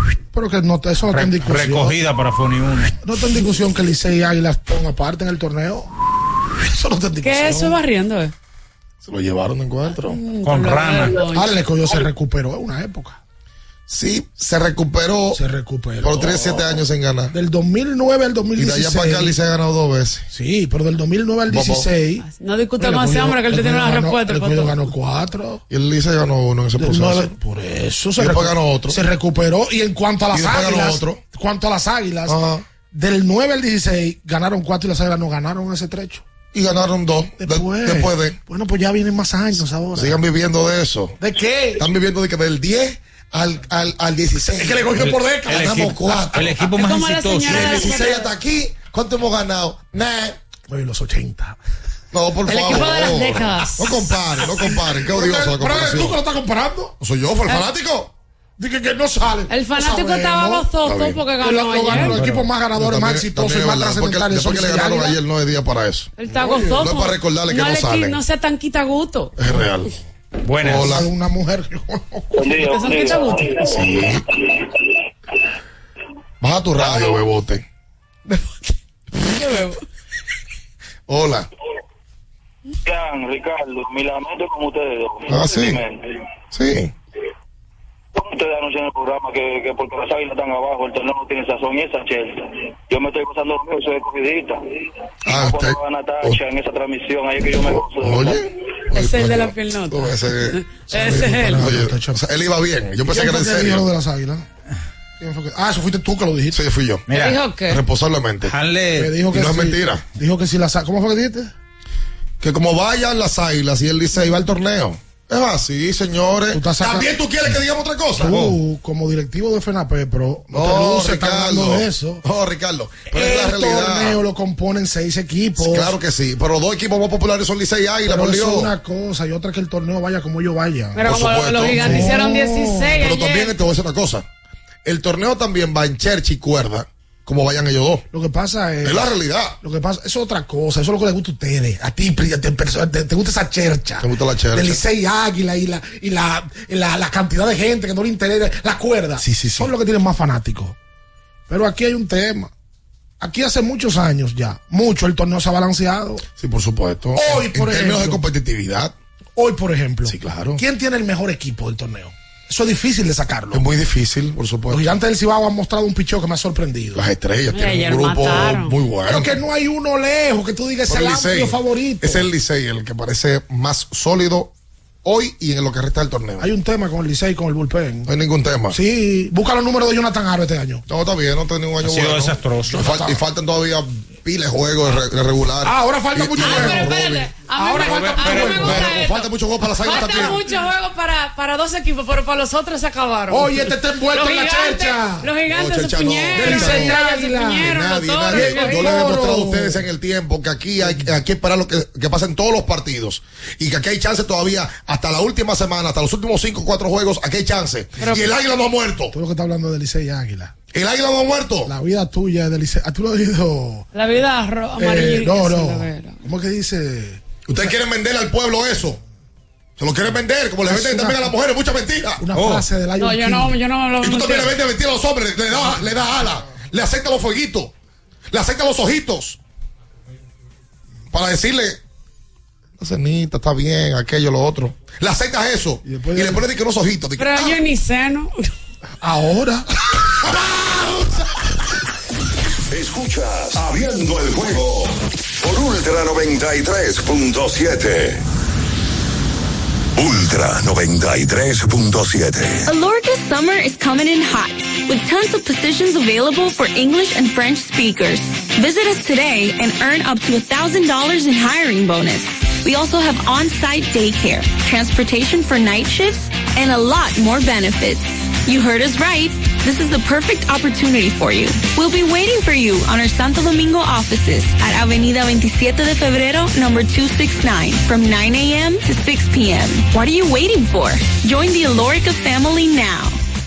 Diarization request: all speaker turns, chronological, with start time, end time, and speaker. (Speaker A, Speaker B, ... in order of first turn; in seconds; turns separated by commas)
Speaker A: 0.3-2.0, Speaker B: 1.1-3.0, Speaker A: 3.0-5.9, Speaker A: 6.5-7.8, Speaker C: 7.2-8.3, Speaker D: 9.0-10.2, Speaker C: 10.0-12.0, Speaker B: 10.4-11.3, Speaker A: 11.3-13.2, Speaker D: 13.9-15.4, Speaker A: 15.3-19.4, Speaker D: 16.0-17.3, Speaker D: 18.6-20.2, Speaker A: 20.3-22.2, Speaker D: 21.5-21.9, Speaker C: 22.2-24.8, Speaker A: 22.8-25.6, Speaker D: 25.7-27.3, Speaker A: 26.8-32.4, Speaker D: 28.2-29.0, Speaker D: 30.3-31.2, Speaker D: 32.3-32.6, Speaker A: 32.9-36.2, Speaker D: 36.5-38.4, Speaker A: 37.4-40.2, Speaker D: 39.9-41.2, Speaker A: 41.2-41.8, Speaker D: 41.8-46.6, Speaker A: 44.5-46.4, Speaker B: 45.0-47.9, Speaker C: 46.6-48.3, Speaker D: 47.5-50.4, Speaker A: 50.7-51.6, Speaker D: 52.1-56.2, Speaker C: 52.5-54.1, Speaker A: 55.0-56.9, Speaker D: 57.0-58.1, Speaker A: 58.6-60.7, Speaker C: 59.5-62.2, Speaker D: 60.8-61.2, Speaker A: 61.4-65.2, Speaker B: 61.9-62.5, Speaker D: 62.8-68.2, Speaker C: 66.2-69.3, Speaker A: 66.3-66.6, Speaker D: 69.4-69.9, Speaker B: 70.4-71.1, Speaker D: 70.6-71.1, Speaker A: 70.7-72.3, Speaker E: 72.3-74.6, Speaker C: 72.4-73.8, Speaker D: 73.7-74.2, Speaker D: 76.4-77.6, Speaker E: 76.8-77.2, Speaker C: 79.2-79.8, Speaker D: 81.1-81.5, Speaker E: 82.8-86.0, Speaker D: 85.3-85.8, Speaker D: 86.5-86.9, Speaker E: 88.1-94.6, Speaker E: 95.2-98.4, Speaker D: 95.3-96.4, Speaker D: 97.7-103.8, Speaker C: 98.9-101.7, Speaker A: 100.9-102.2, Speaker A: 103.0-104.5, Speaker A: 105.2-106.6, Speaker D: 106.5-107.1, Speaker B: 107.1-107.4, Speaker C: 107.1-107.8, Speaker D: 107.7-108.5, Speaker B: 108.4-109.2, Speaker A: 108.9-111.5, Speaker D: 109.3-110.0, Speaker D: 112.4-118.5, Speaker A: 116.5-117.1, Speaker A: 118.2-122.2, Speaker D: 120.5-124.2, Speaker A: 123.1-126.0, Speaker D: 125.6-128.7, Speaker A: 128.0-131.1, Speaker C: 130.9-133.6, Speaker D: 131.0-132.1, Speaker A: 131.6-133.0, Speaker D: 133.0-134.3, Speaker D: 134.8-138.0, Speaker A: 138.1-150.8, Speaker D: 138.8-139.6, Speaker D: 144.0-144.8, Speaker D: 149.2-149.7, Speaker A: 151.5-152.5, Speaker A: 153.2-156.2, Speaker D: 156.4-158.9, Speaker A: 157.1-158.2, Speaker A: 159.3-163.7, Speaker D: 160.1-160.6, Speaker D: 163.5-164.9, Speaker A: 164.7-167.0, Speaker D: 166.9-169.4, Speaker C: 167.5-168.8, Speaker A: 169.1-172.3, Speaker D: 170.9-174.5, Speaker D: 175.0-176.5, Speaker A: 176.4-178.1, Speaker D: 178.1-178.8, Speaker A: 178.7-180.8, Speaker D: 180.9-187.3, Speaker B: 181.8-182.9, Speaker A: 182.7-183.2, Speaker A: 185.6-187.0, Speaker C: 186.4-199.1, Speaker A: 187.5-188.9, Speaker B: 187.8-188.7, Speaker D: 188.3-190.4, Speaker A: 193.3-195.3, Speaker D: 195.5-197.0, Speaker A: 196.3-199.8, Speaker D: 197.6-209.1, Speaker A: 200.8-201.1, Speaker C: 208.0-208.3, Speaker A: 209.1-210.5, Speaker D: 210.7-211.7, Speaker A: 211.7-213.8, Speaker C: 213.9-216.2, Speaker A: 214.8-217.2, Speaker D: 217.4-219.0, Speaker D: 219.8-222.2, Speaker A: 220.6-221.3, Speaker A: 222.2-223.6, Speaker B: 222.3-222.7, Speaker C: 223.0-224.6, Speaker D: 224.0-227.7, Speaker A: 225.7-225.9, Speaker D: 228.3-229.4, Speaker D: 231.1-231.8, Speaker D: 232.8-237.6, Speaker A: 235.8-236.4, Speaker C: 237.2-238.3, Speaker A: 239.0-241.2, Speaker F: 242.7-248.2, Speaker F: 249.9-252.7, Speaker G: 252.7-283.2